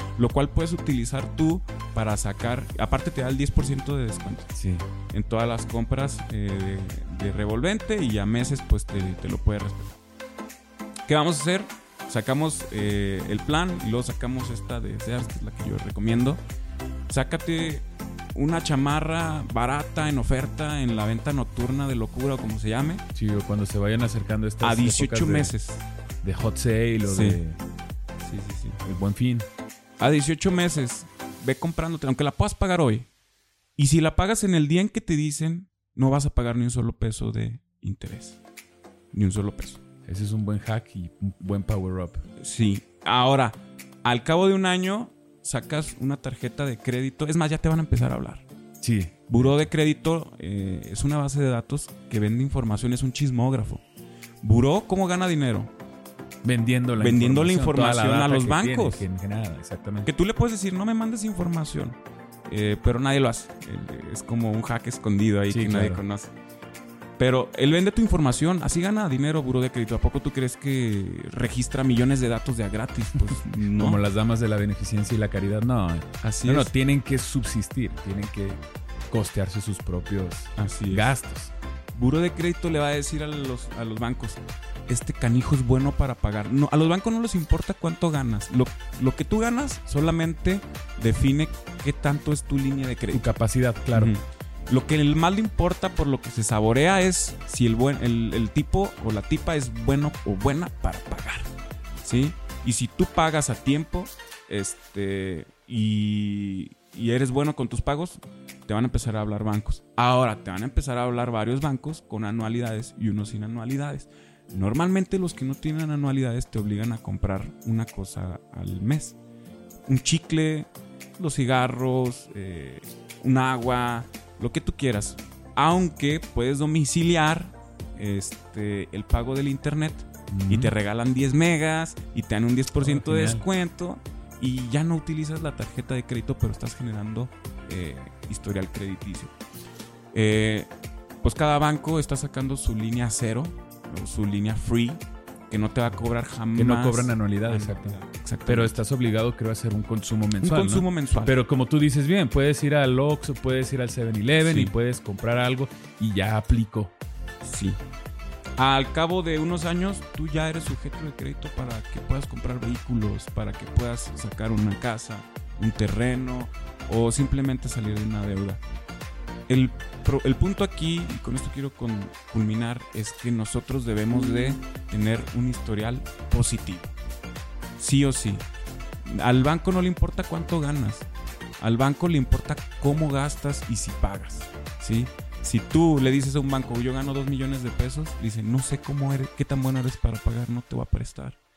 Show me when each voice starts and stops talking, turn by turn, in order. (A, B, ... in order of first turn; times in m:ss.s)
0:00.2-0:04.5 A
0:04.5-0:04.9 B
0:05.1-0:10.0 A
0:11.1-0:16.4 A
0:17.1-0:23.0 A
0:23.1-0:25.5 B
0:24.6-0:25.8 A
0:26.2-0:27.6 B
0:27.0-0:27.4 A
0:28.2-0:28.8 A
0:28.8-0:29.5 B
0:30.0-0:33.1 A
0:33.8-0:38.4 A
0:39.1-0:39.8 A
0:40.1-0:42.2 B
0:42.4-0:48.4 A
0:48.8-0:49.7 B
0:49.3-0:53.8 A
0:54.4-0:55.7 A
0:56.4-1:00.1 B
0:57.0-0:59.0 A
1:00.0-1:06.3 A
1:05.5-1:06.0 B
1:07.2-1:14.0 A
1:13.7-1:21.5 B
1:16.2-1:16.7 A
1:20.6-1:21.1 A
1:21.9-1:33.3 A
1:33.1-1:34.1 B
1:33.9-1:41.5 A
1:42.0-1:59.2 A
1:59.9-2:19.3 A
2:10.3-2:10.7 B
2:12.8-2:13.4 B
2:20.1-2:20.7 A
2:21.2-2:28.7 A
2:26.5-2:36.9 B
2:30.4-2:31.4 A
2:34.4-2:34.7 A
2:37.4-2:37.8 A
2:38.6-2:48.6 A
2:49.5-2:56.9 A
2:57.8-2:58.4 A
2:59.0-3:01.1 A
3:01.6-3:11.4 A